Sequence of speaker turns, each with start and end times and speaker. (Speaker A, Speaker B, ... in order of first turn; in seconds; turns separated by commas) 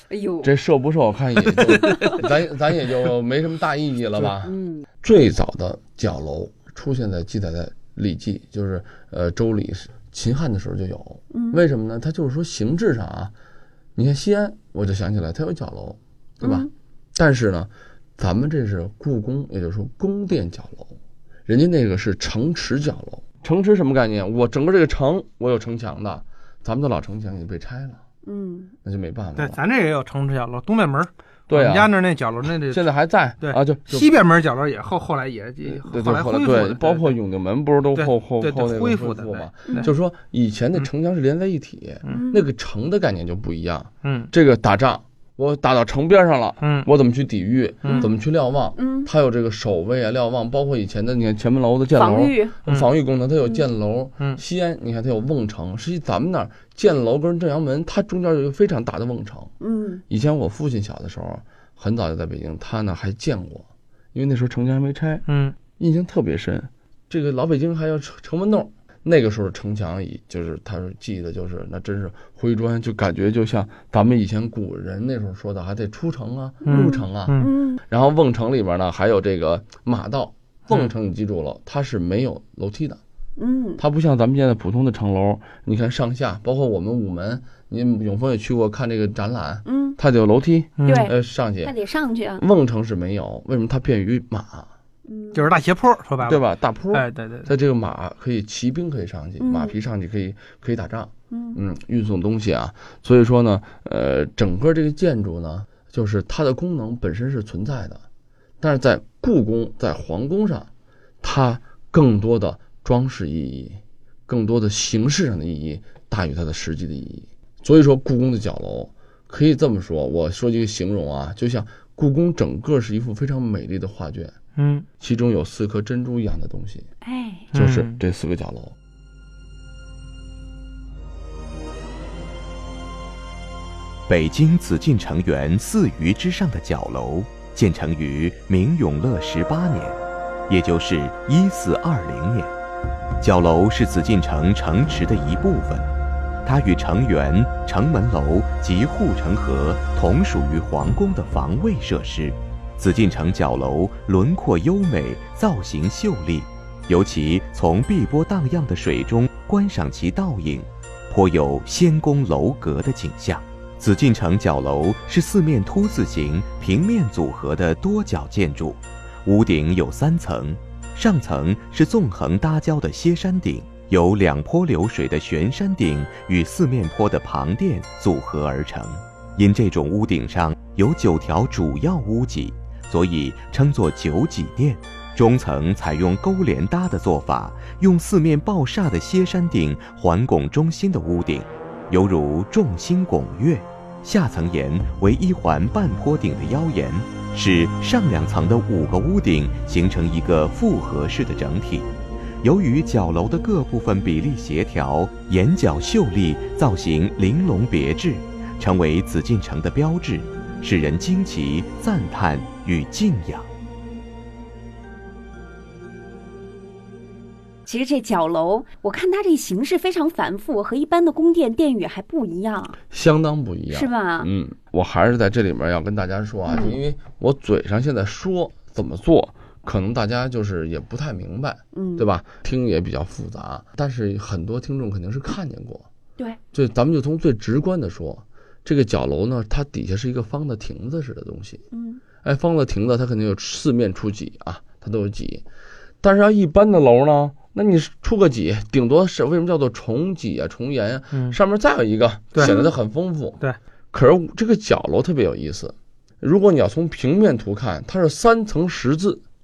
Speaker A: 0.1-0.5, Speaker B: 0.4-13.3, Speaker A: 1.5-2.2, Speaker A: 4.4-4.8, Speaker A: 11.3-11.6, Speaker B: 13.9-20.9, Speaker A: 16.4-16.7, Speaker B: 21.5-28.0, Speaker A: 28.2-28.7, Speaker B: 28.8-29.6, Speaker C: 29.4-37.2, Speaker B: 31.5-31.9, Speaker B: 32.7-34.2, Speaker B: 35.6-59.5, Speaker C: 37.9-39.9, Speaker A: 42.1-42.5, Speaker C: 44.0-44.3, Speaker C: 46.6-46.9, Speaker A: 47.9-48.1, Speaker A: 48.8-49.1, Speaker A: 51.9-52.5, Speaker A: 53.4-53.7, Speaker A: 59.6-60.0, Speaker B: 60.1-83.0, Speaker C: 65.2-65.5, Speaker A: 76.6-77.8, Speaker C: 76.6-77.5, Speaker A: 83.4-83.8, Speaker B: 83.8-91.7, Speaker A: 89.7-90.0, Speaker C: 90.8-91.1, Speaker A: 90.8-92.4, Speaker B: 92.4-94.7, Speaker A: 95.1-95.5, Speaker C: 95.3-97.5, Speaker B: 96.2-108.0, Speaker A: 99.4-99.8, Speaker A: 101.3-101.6, Speaker B: 108.6-110.7, Speaker B: 111.2-124.3, Speaker C: 124.6-124.8, Speaker B: 125.0-126.9, Speaker A: 127.0-127.5, Speaker C: 127.5-128.0, Speaker B: 127.5-128.7, Speaker D: 134.1-142.5, Speaker D: 143.2-145.9, Speaker D: 146.4-201.9, Speaker D: 202.4-213.5, Speaker A: 217.7-222.8, Speaker B: 222.9-235.9, Speaker A: 223.7-224.3, Speaker A: 226.5-226.8, Speaker A: 231.7-232.1, Speaker B: 236.5-241.6, Speaker A: 241.7-242.0, Speaker B: 242.2-245.4, Speaker B: 246.0-253.4, Speaker C: 251.1-251.4, Speaker A: 252.4-252.7, Speaker B: 253.9-259.2